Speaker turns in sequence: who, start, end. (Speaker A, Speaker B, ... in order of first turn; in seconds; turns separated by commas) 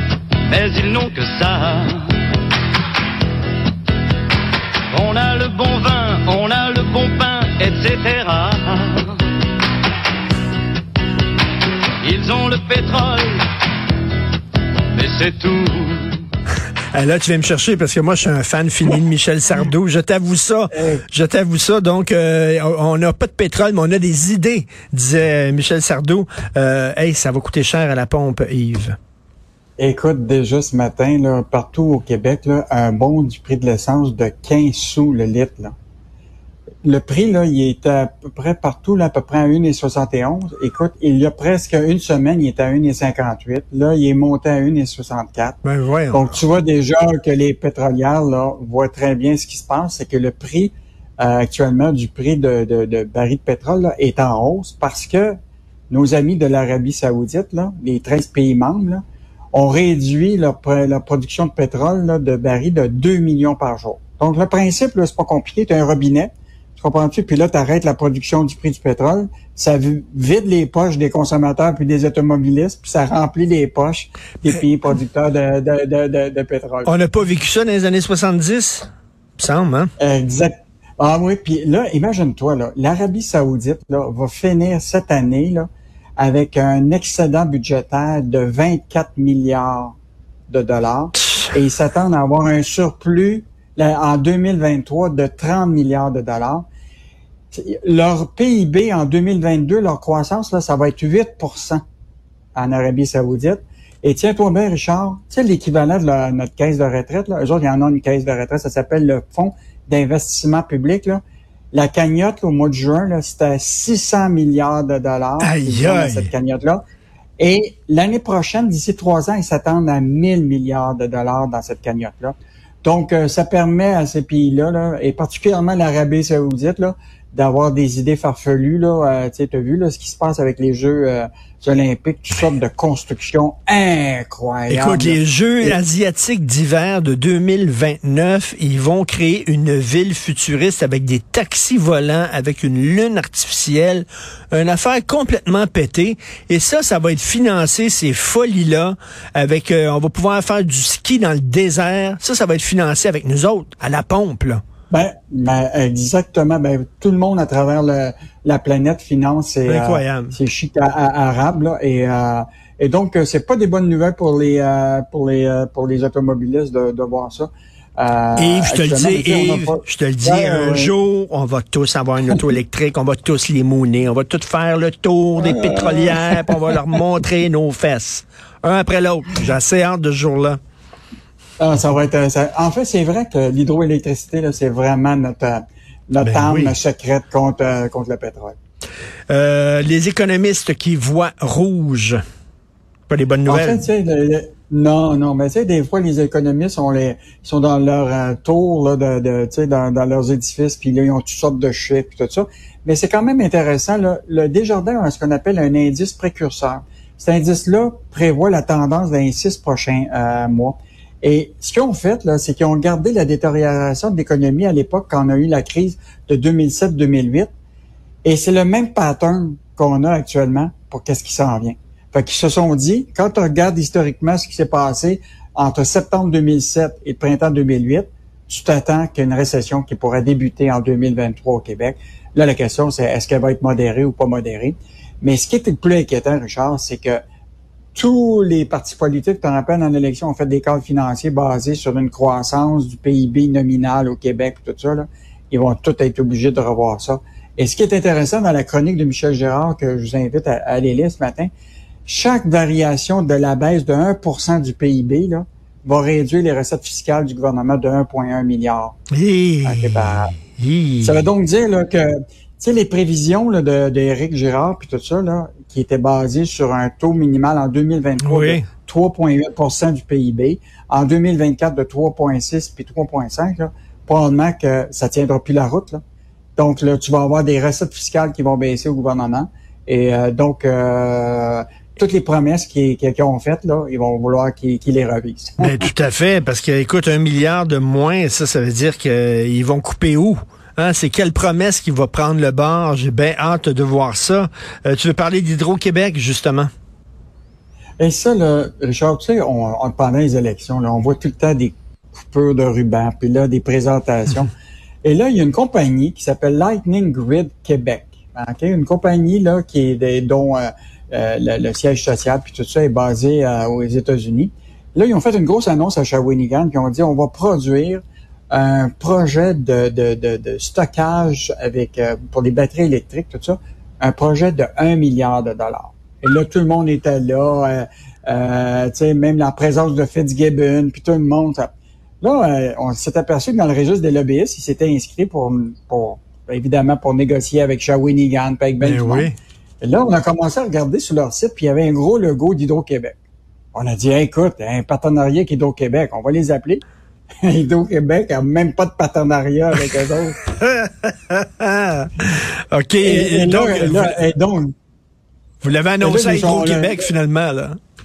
Speaker A: 0.5-2.2, Speaker A: 4.9-9.2, Speaker A: 12.0-13.5, Speaker A: 14.9-16.2, Speaker B: 16.9-29.0, Speaker C: 20.7-21.0, Speaker C: 29.8-35.7, Speaker C: 36.8-45.6, Speaker B: 45.6-46.4, Speaker C: 46.1-55.4, Speaker C: 55.9-59.0, Speaker C: 59.5-76.9, Speaker B: 76.8-79.9, Speaker C: 80.0-85.7, Speaker C: 86.2-90.0, Speaker C: 90.5-96.7, Speaker C: 97.5-101.8, Speaker C: 102.5-111.2, Speaker C: 111.7-116.8, Speaker B: 115.4-116.3, Speaker C: 117.4-135.8, Speaker B: 134.7-154.6, Speaker C: 154.9-170.9, Speaker B: 159.7-160.4, Speaker B: 168.4-180.6, Speaker C: 175.4-176.8, Speaker C: 181.6-188.6, Speaker B: 186.2-186.8, Speaker B: 189.3-192.2, Speaker B: 193.1-193.9, Speaker C: 193.5-217.5, Speaker C: 218.2-237.2, Speaker C: 237.9-251.5, Speaker C: 252.1-259.0, Speaker B: 259.1-261.2, Speaker C: 259.6-260.4, Speaker C: 261.0-276.0, Speaker B: 268.2-268.7, Speaker C: 276.6-285.9, Speaker B: 285.6-296.7, Speaker C: 298.0-304.5, Speaker C: 305.0-339.3, Speaker B: 338.8-339.4, Speaker C: 339.8-343.1, Speaker C: 343.7-346.8, Speaker C: 347.4-350.4, Speaker B: 350.6-354.2, Speaker C: 353.0-354.7, Speaker B: 355.6-357.8, Speaker C: 356.0-357.1